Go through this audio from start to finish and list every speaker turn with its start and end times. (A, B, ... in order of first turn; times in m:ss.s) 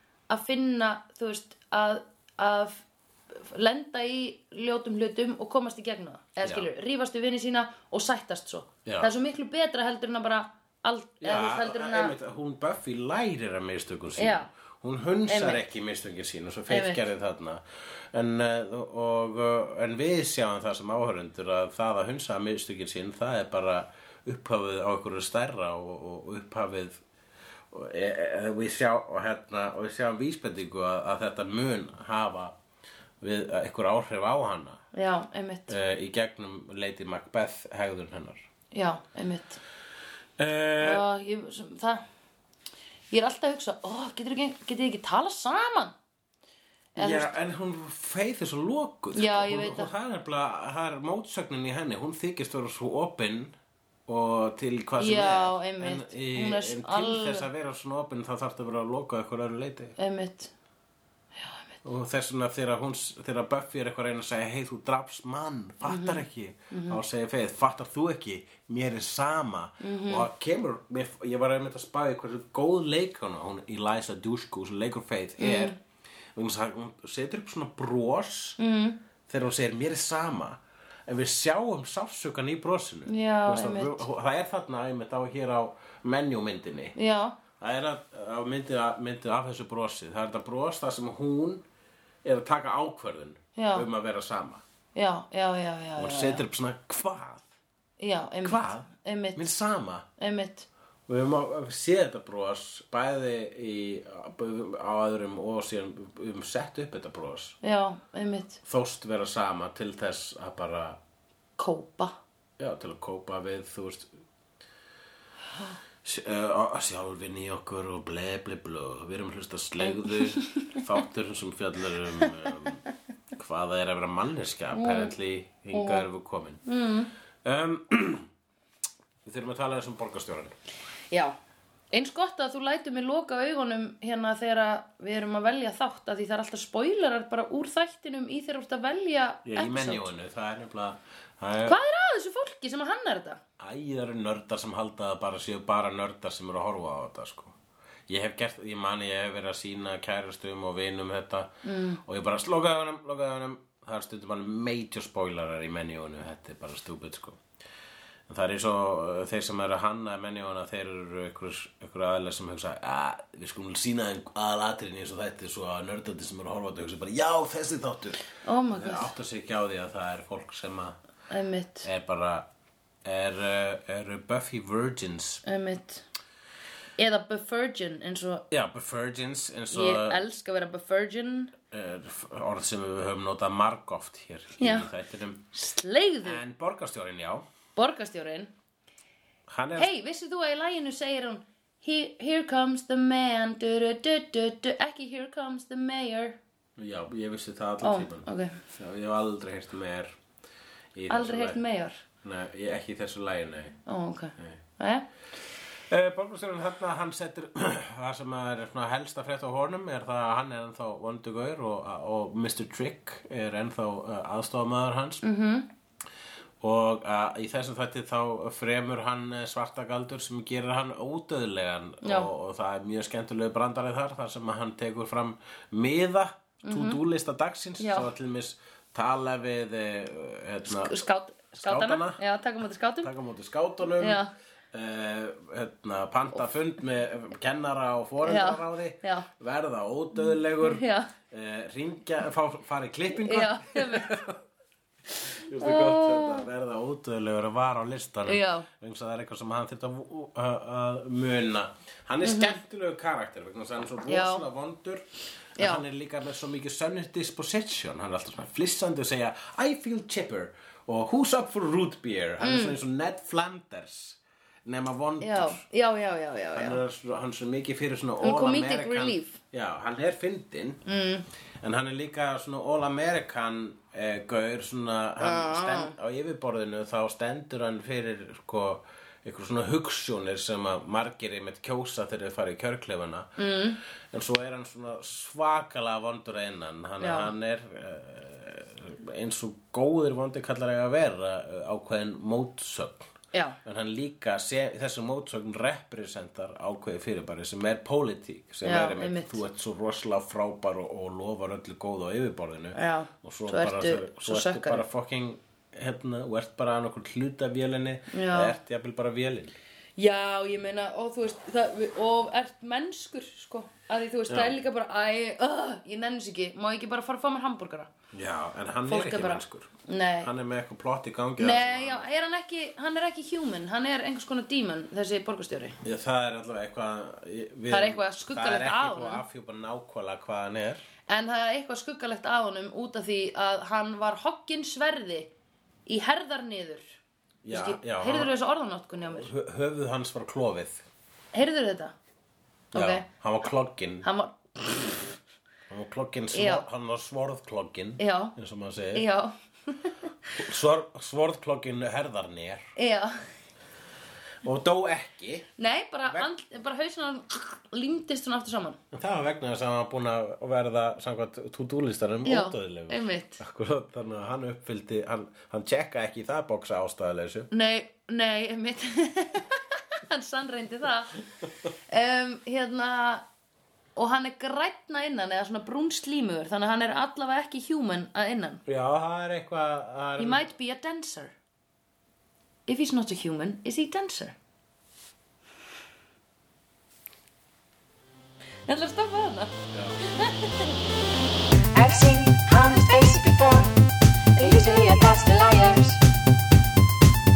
0:00.3-0:12.2 A
0:06.4-0:06.7 B
0:08.9-0:09.1 B
0:11.2-0:27.0 B
0:14.2-0:14.5 A
0:15.3-0:15.6 A
0:16.7-0:17.0 A
0:27.7-0:32.6 B
0:33.2-0:34.8 B
0:34.9-0:35.7 A
0:35.7-0:38.5 B
0:38.7-0:39.6 A
0:40.4-0:41.0 B
0:40.8-0:42.1 A
0:43.1-0:46.0 A
0:47.0-0:47.4 A
0:47.0-0:53.6 B
0:49.1-0:49.9 A
0:54.1-1:00.0 B
0:55.0-0:57.5 A
1:00.0-1:00.5 A
1:01.4-1:01.7 A
1:01.8-1:15.8 B
1:05.9-1:07.0 A
1:09.8-1:10.3 A
1:15.4-1:15.8 A
1:16.4-1:18.6 B
1:18.6-1:19.0 A
1:19.3-1:27.0 B
1:23.1-1:24.1 A
1:27.0-1:27.4 A
1:27.6-1:31.6 B
1:32.2-1:34.6 B
1:33.6-1:33.9 A
1:35.0-1:36.4 A
1:36.0-1:37.5 B
1:38.0-1:39.5 A
1:38.4-1:40.1 B
1:40.2-1:40.7 A
1:41.1-1:47.6 B
1:47.6-1:48.6 A
1:48.6-1:51.0 B
1:51.6-1:52.2 A
1:52.6-1:54.1 B
1:56.0-2:02.8 B
1:59.8-2:00.8 A
2:03.3-2:06.6 B
2:04.7-2:05.2 A
2:05.7-2:06.1 A
2:06.7-2:07.1 A
2:07.4-2:08.3 B
2:09.2-2:10.5 B
2:11.9-2:20.1 A
2:19.4-2:21.8 B
2:21.6-2:23.4 A
2:23.6-2:27.6 B
2:28.1-2:37.4 B
2:31.6-2:32.0 A
2:38.3-2:51.0 B
2:48.4-2:49.1 A
2:51.3-2:51.9 A
2:51.8-2:52.5 B
2:53.0-2:55.4 B
2:55.4-2:56.0 A
2:57.0-2:58.4 A
2:58.5-3:00.2 B
2:59.7-3:01.5 A
3:01.7-3:05.5 B
3:04.6-3:04.9 A
3:05.5-3:06.4 A
3:06.2-3:07.4 B
3:07.8-3:08.5 A
3:09.5-3:09.9 B
3:09.8-3:16.4 A
3:16.8-3:20.2 B
3:17.8-3:18.6 A
3:21.0-3:21.6 B
3:21.1-3:22.0 A
3:22.2-3:23.8 B
3:23.9-3:25.1 A
3:25.9-3:35.2 B
3:35.2-3:35.7 A
3:36.6-3:51.0 B
3:42.0-3:42.3 A
3:46.6-3:47.0 A
3:47.8-3:48.1 A
3:50.7-3:53.1 A
3:51.5-3:52.2 B
3:53.0-4:04.4 B
3:54.0-3:54.3 A
3:58.2-3:59.3 A
4:00.2-4:01.1 A
4:03.1-4:04.3 A
4:05.3-4:25.6 B
4:05.6-4:06.5 A
4:08.3-4:08.7 A
4:12.2-4:12.6 A
4:14.1-4:14.4 A
4:15.6-4:15.8 A
4:22.4-4:22.8 A
4:25.2-4:26.8 A
4:26.5-4:30.8 B
4:28.2-4:29.4 A
4:30.8-4:31.3 A
4:31.6-4:43.4 B
4:35.2-4:36.0 A
4:43.4-4:43.8 A
4:44.1-4:53.1 B
4:47.0-4:47.3 A
4:53.3-4:53.6 A
4:53.6-5:09.6 B
4:58.6-4:59.4 A
5:02.7-5:04.8 A
5:08.1-5:08.6 A
5:10.0-5:17.9 A
5:14.3-5:14.6 B
5:18.1-5:22.1 B
5:18.9-5:20.3 A
5:21.4-5:25.8 A
5:25.8-5:30.9 B
5:27.7-5:29.2 A
5:31.1-5:35.3 A
5:35.9-5:37.0 A
5:37.4-5:38.3 B
5:37.5-5:39.3 A
5:39.1-5:40.8 B
5:41.3-5:41.9 A
5:42.7-5:44.1 B
5:42.7-5:43.1 A
5:44.0-5:45.2 A
5:45.7-5:49.1 B
5:46.3-5:46.7 A
5:48.0-5:48.4 A
5:48.9-5:50.3 A
5:50.4-5:52.6 B
5:52.8-5:53.2 A
5:54.4-5:55.5 B
5:55.6-5:58.8 A
5:58.9-6:07.5 B
6:02.2-6:03.4 A
6:07.5-6:11.2 A
6:11.9-6:13.2 A
6:14.0-6:18.6 A
6:18.7-6:20.5 B
6:20.2-6:21.3 A
6:22.7-6:24.4 A
6:28.7-6:30.8 A
6:29.7-6:30.0 B
6:31.7-6:33.7 C
6:34.4-6:36.0 C